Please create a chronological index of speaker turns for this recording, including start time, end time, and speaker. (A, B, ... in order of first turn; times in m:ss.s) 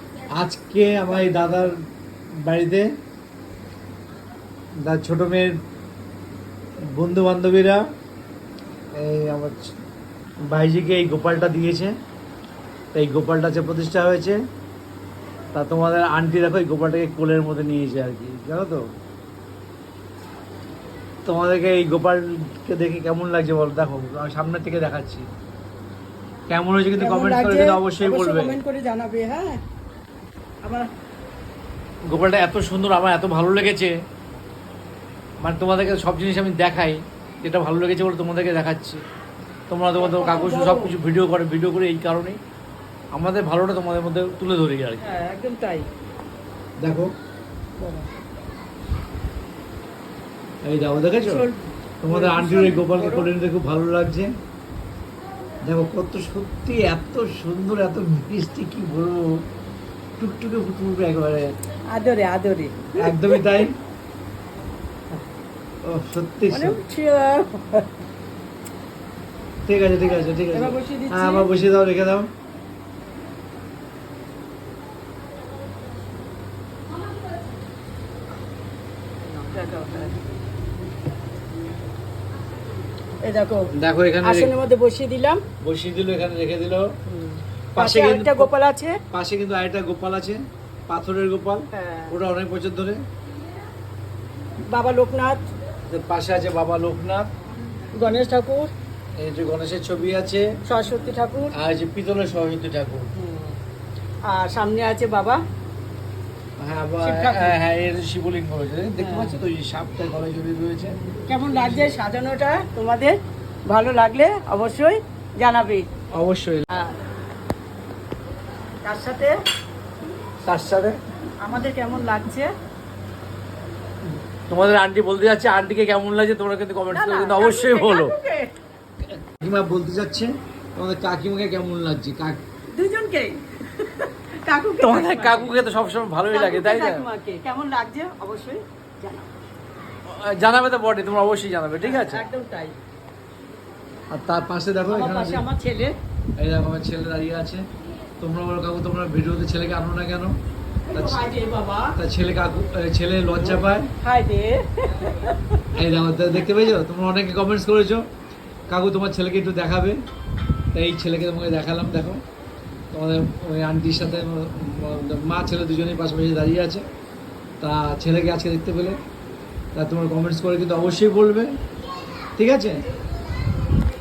0:00.4-0:01.8 A
0:02.4-0:02.9 A
0:04.8-0:05.6 A
0:06.9-0:07.8 A
0:08.9-0:09.8 A
0:10.5-0:12.0 A
0:13.0-0:14.4 A
0:15.5-0:18.8 A
0:21.2-0:25.3 A
0:26.5-0:28.6 A
0:27.0-0:29.6 B
0:32.1-0:33.9 A
0:35.4-0:39.0 A
0:39.7-0:42.4 A
0:40.0-0:40.9 B
0:43.1-0:45.0 A
0:45.0-0:45.9 B
0:46.8-0:47.1 A
0:47.8-0:48.1 B
0:50.6-0:51.5 A
0:51.1-0:53.3 B
0:52.0-0:54.3 A
0:55.7-0:59.4 A
1:00.2-1:01.6 A
1:01.9-1:03.7 B
1:03.0-1:03.8 A
1:05.8-1:06.8 A
1:06.5-1:07.9 B
1:09.7-1:12.3 A
1:10.5-1:11.5 B
1:19.3-1:20.2 B
1:23.2-1:25.4 B
1:23.7-1:24.5 A
1:25.6-1:26.9 A
1:27.1-1:29.0 B
1:27.7-1:28.5 A
1:29.1-1:33.0 A
1:31.7-1:32.1 B
1:34.7-1:35.4 B
1:35.9-1:37.3 A
1:38.0-1:38.7 B
1:39.2-1:40.5 A
1:40.6-1:41.5 B
1:41.5-1:43.1 A
1:43.2-1:43.6 B
1:44.3-1:45.4 B
1:46.6-1:51.9 A
1:47.0-1:47.6 B
1:49.0-1:49.4 B
1:51.3-1:55.9 B
1:56.1-1:56.7 A
1:58.8-1:59.4 B
2:00.4-2:01.0 A
2:01.4-2:02.5 B
2:04.5-2:08.1 A
2:06.9-2:08.5 B
2:09.2-2:12.4 A
2:12.7-2:15.6 B
2:14.8-2:17.0 A
2:16.3-2:19.3 B
2:20.1-2:22.2 A
2:21.8-2:22.8 B
2:24.1-2:25.4 A
2:24.9-2:26.0 B
2:26.4-2:27.7 A
2:28.2-2:30.4 A
2:30.9-2:32.0 B
2:30.9-2:31.2 A
2:32.0-2:33.9 A
2:34.0-2:35.4 B
2:35.7-2:38.0 A
2:38.7-2:40.0 A
2:40.7-2:42.2 A
2:42.9-2:46.9 A
2:47.6-2:49.0 A
2:49.8-2:51.5 A
2:52.4-2:52.8 A